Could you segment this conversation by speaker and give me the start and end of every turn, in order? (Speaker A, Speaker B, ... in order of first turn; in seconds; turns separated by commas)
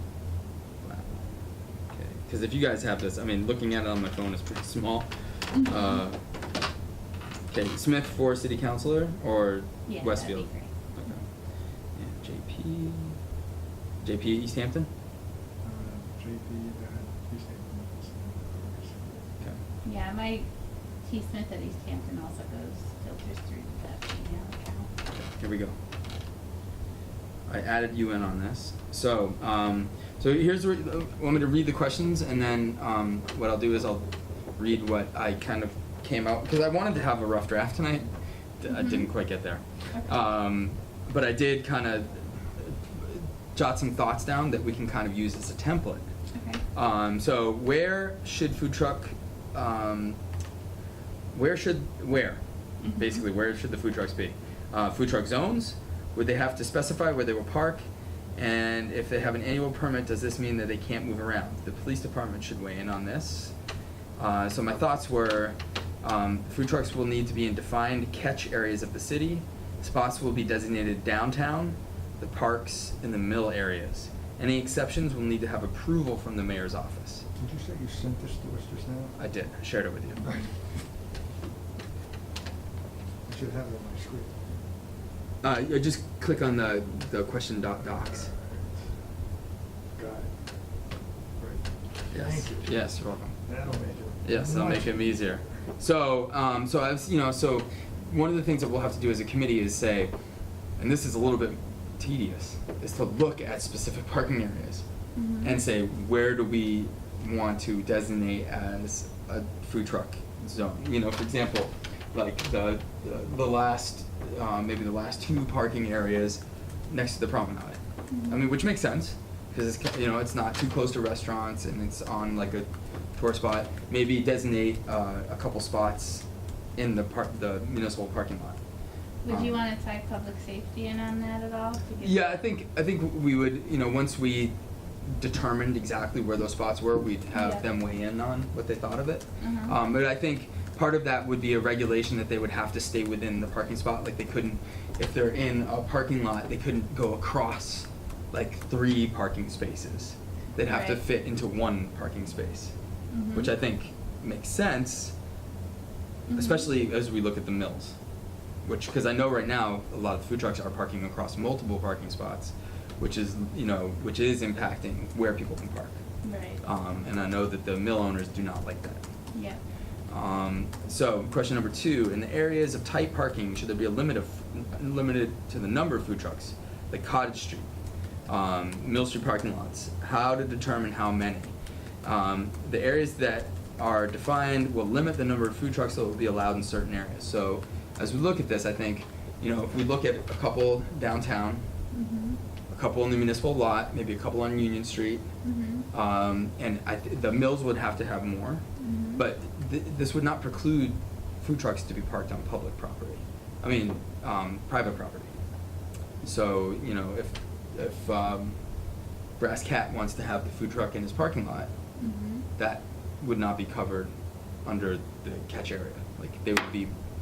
Speaker A: 0.8-1.3, Speaker A: 1.9-6.2, Speaker B: 5.5-6.0, Speaker A: 7.5-11.2, Speaker B: 9.9-10.7, Speaker A: 12.0-13.2, Speaker A: 14.0-14.9, Speaker C: 15.6-19.4, Speaker B: 19.8-20.5, Speaker B: 21.0-24.9, Speaker A: 25.1-25.8, Speaker A: 27.5-46.0, Speaker B: 38.7-39.1, Speaker B: 39.9-40.2, Speaker B: 46.4-46.6, Speaker A: 46.7-50.2, Speaker A: 51.3-52.4, Speaker B: 52.8-53.2, Speaker A: 52.9-57.8, Speaker A: 58.4-63.5, Speaker A: 64.2-77.2, Speaker C: 77.4-79.2, Speaker A: 79.2-80.2, Speaker C: 80.2-80.5, Speaker C: 83.3-84.5, Speaker A: 85.4-88.3, Speaker C: 87.9-88.8, Speaker C: 90.0-90.4, Speaker C: 91.4-92.8, Speaker A: 92.1-93.4, Speaker C: 93.4-95.1, Speaker A: 94.2-100.1, Speaker A: 100.8-104.8, Speaker B: 105.2-105.6, Speaker A: 105.4-128.6, Speaker B: 118.1-118.4, Speaker B: 129.2-132.3, Speaker A: 129.3-129.6, Speaker A: 132.0-152.7, Speaker B: 137.3-137.7, Speaker B: 139.4-139.8, Speaker B: 150.6-151.0, Speaker B: 153.1-153.5, Speaker A: 153.3-155.2, Speaker B: 156.3-156.7, Speaker A: 156.3-158.0, Speaker A: 158.7-166.0, Speaker B: 166.2-166.6, Speaker A: 166.6-169.0, Speaker B: 169.3-169.6, Speaker A: 170.1-177.7, Speaker A: 178.3-191.6, Speaker B: 191.9-192.4, Speaker A: 192.7-195.3, Speaker B: 195.4-195.9, Speaker A: 195.9-198.6, Speaker B: 198.8-199.2, Speaker A: 199.2-205.3, Speaker A: 206.2-208.6, Speaker A: 209.4-211.7, Speaker B: 212.0-212.5, Speaker A: 212.6-214.1, Speaker A: 214.7-216.9